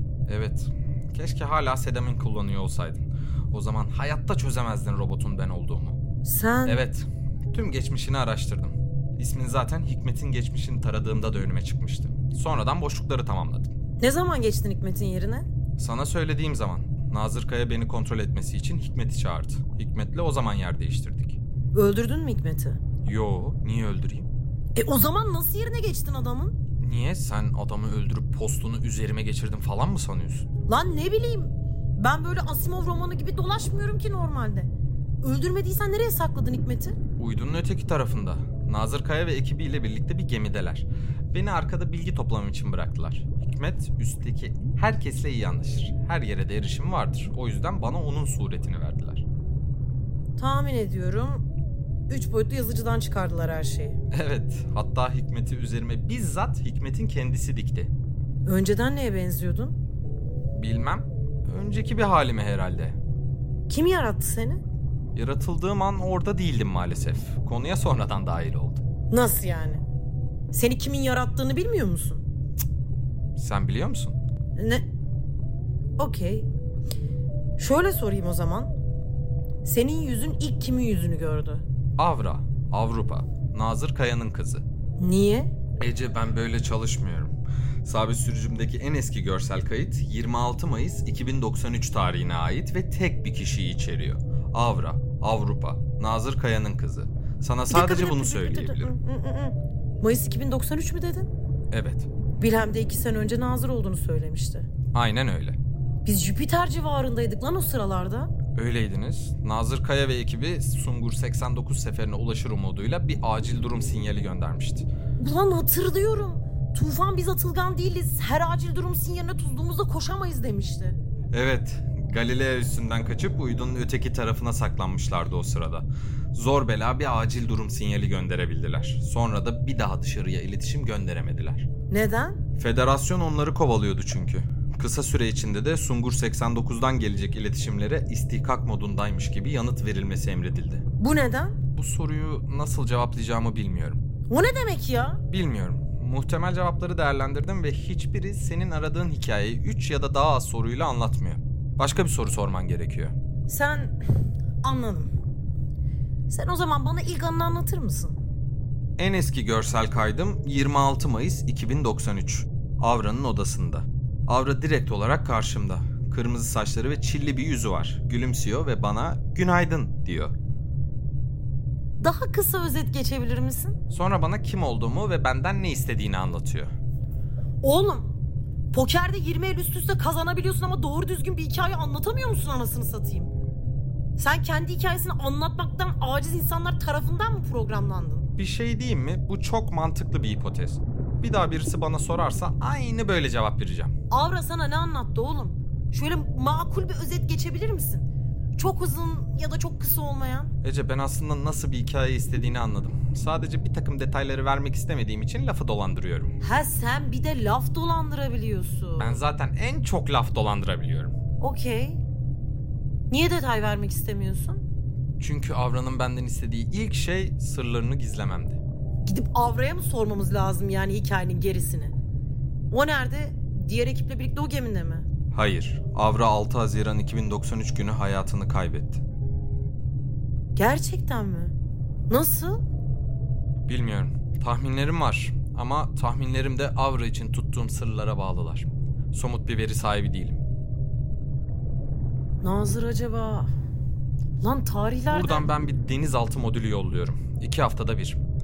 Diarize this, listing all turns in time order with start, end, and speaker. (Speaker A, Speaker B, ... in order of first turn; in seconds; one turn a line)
Speaker A: 0.3-6.0
Speaker B: 6.2-6.8
Speaker A: 6.7-13.7
Speaker B: 14.0-15.4
Speaker A: 15.8-21.4
Speaker B: 21.7-22.8
Speaker A: 23.0-24.3
Speaker B: 24.7-26.5
Speaker A: 26.8-30.5
Speaker B: 30.7-34.7
Speaker B: 35.2-37.0
Speaker A: 37.2-49.2
Speaker B: 50.4-51.4
Speaker B: 52.1-54.0
Speaker A: 54.1-57.9
Speaker B: 58.5-59.7
Speaker A: 60.5-63.0
Speaker B: 63.7-64.6
Speaker A: 65.1-68.8
Speaker B: 69.1-69.8
Speaker B: 70.5-72.2
Speaker A: 73.3-74.2
Speaker B: 74.5-74.8
Speaker B: 76.0-76.5
Speaker B: 77.6-78.7
Speaker B: 79.6-81.6
Speaker A: 82.0-84.6
Speaker B: 85.0-85.5
Speaker A: 85.8-98.9
Speaker B: 97.7-101.3
Speaker A: 101.7-102.1
Speaker B: 102.4-104.7
Speaker A: 104.9-105.6
Speaker B: 106.0-108.3
Speaker A: 108.5-114.9
Speaker B: 115.2-121.0
Speaker A: 121.3-131.7
Speaker B: 131.9-132.4
Speaker A: 132.6-140.8
Speaker B: 141.0-141.5
Speaker A: 141.7-144.0
Speaker B: 144.3-145.2
Speaker A: 145.3-153.1
Speaker B: 153.5-153.9
Speaker B: 154.6-155.1
Speaker B: 156.3-158.2
Speaker A: 159.0-170.3
Speaker B: 172.0-173.8
Speaker A: 173.9-176.7
Speaker B: 177.6-178.1
Speaker B: 178.7-183.3
Speaker B: 184.2-188.3
Speaker A: 188.4-193.9
Speaker B: 194.1-200.5
Speaker A: 200.6-206.3
Speaker B: 206.4-209.2
Speaker A: 209.0-211.1
Speaker B: 211.4-212.0
Speaker B: 213.1-214.6
Speaker A: 215.2-218.6
Speaker B: 219.0-221.9
Speaker B: 222.7-225.1
Speaker A: 225.3-229.0
Speaker B: 230.6-231.5
Speaker B: 232.1-232.6
Speaker A: 233.7-240.4
Speaker B: 242.4-243.5
Speaker B: 244.4-245.5
Speaker A: 245.1-248.2